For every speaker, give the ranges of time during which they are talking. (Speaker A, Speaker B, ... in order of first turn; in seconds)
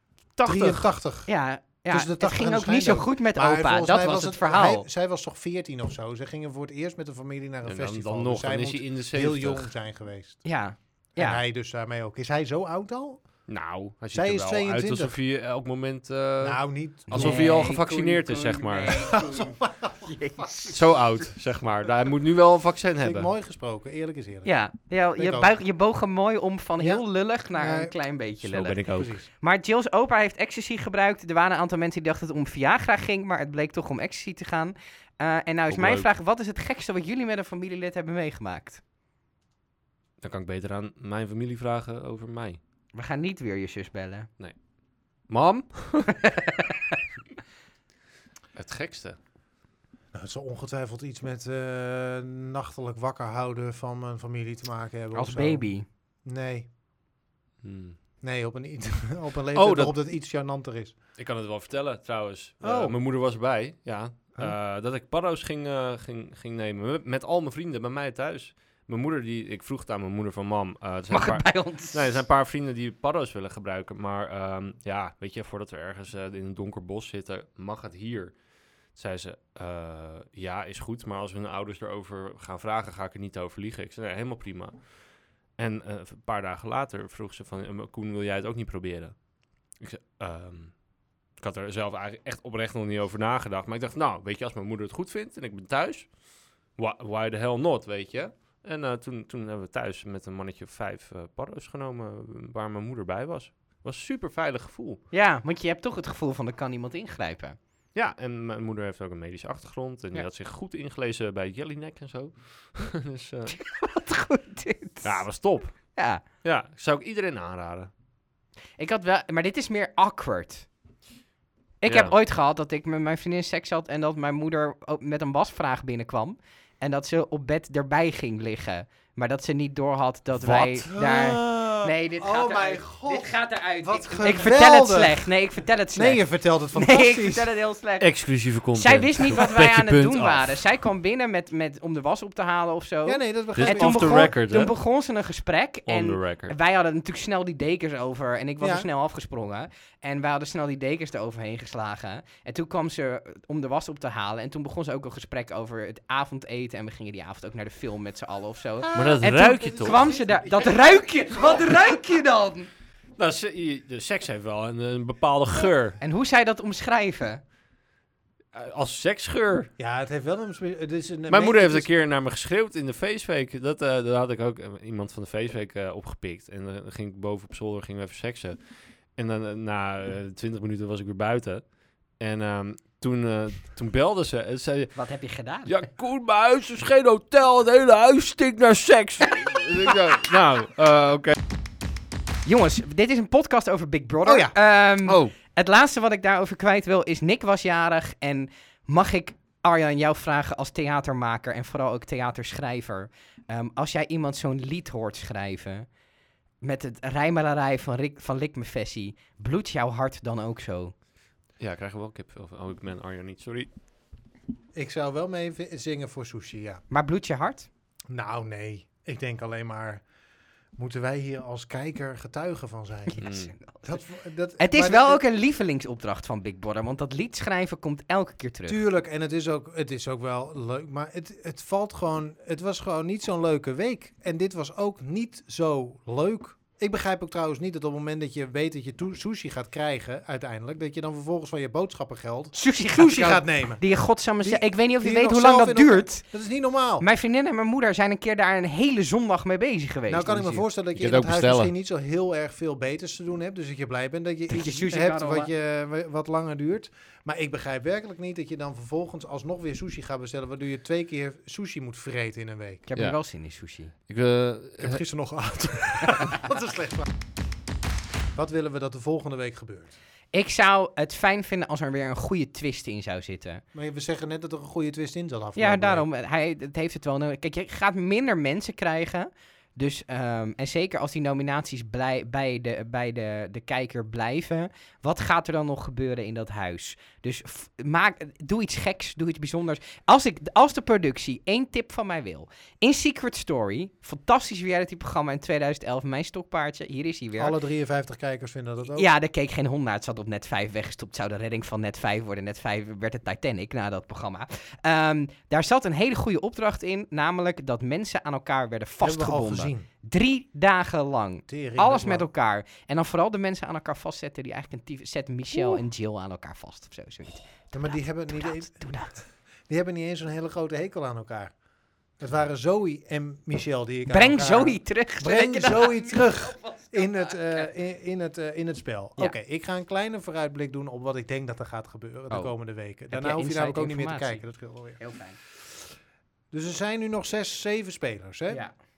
Speaker A: 0.4-0.8, 7.7-9.7, 13.5-19.1, 20.7-23.3, 28.4-29.2, 35.7-36.1, 40.2-42.6, 45.3-46.3, 48.5-49.2, 57.6-58.0, 59.5-59.9, 61.2-78.4, 78.9-84.9, 85.6-89.2, 89.8-90.7, 91.4-96.1, 96.8-105.0, 108.0-113.6, 115.0-117.9, 121.9-122.2, 138.0-140.6, 143.6-144.7, 145.9-146.5, 158.9-160.0, 163.2-166.0, 168.5-169.7, 171.3-178.6, 179.2-181.7, 182.2-184.9, 185.7-191.4, 195.1-195.3, 211.6-213.7, 223.2-223.5, 251.0-251.7, 264.1-265.0
Speaker B: 0.5-1.3, 1.9-10.4, 11.2-13.4, 14.1-15.2, 16.4-17.6, 19.0-20.4, 23.0-24.5, 25.2-25.5, 26.8-27.0, 27.6-27.9, 28.9-29.3, 50.1-55.7, 56.2-56.7, 58.2-61.0, 62.6-63.0, 130.4-135.3, 135.9-137.5, 143.1-144.3, 148.6-148.9, 158.8-161.8, 169.8-171.9, 194.2-194.6, 214.8-216.8, 218.1-220.0, 220.8-223.2, 223.8-225.2, 228.7-243.8, 244.4-247.1, 250.1-262.9, 264.8-267.1, 268.4-269.9, 273.7-276.1, 297.4-299.1, 309.0-309.9, 311.5-312.3, 317.7-321.5, 322.2-335.0, 336.5-338.6
Speaker C: 1.3-4.9, 10.4-11.4, 17.1-20.8, 24.4-38.8, 42.9-44.3, 46.2-46.7, 55.1-55.9, 71.1-72.2, 105.1-107.6, 113.5-115.2, 116.0-116.2, 118.8-120.7, 121.8-138.1, 138.8-162.7, 166.0-167.4, 184.9-185.8, 192.4-205.9, 206.6-210.9, 216.9-217.7, 223.1-224.0, 224.6-228.8, 242.5-246.2, 247.0-250.7, 254.5-255.5, 262.9-263.9, 270.3-273.6, 275.6-297.5, 298.9-319.2, 324.1-327.7, 333.1-334.4, 335.0-335.4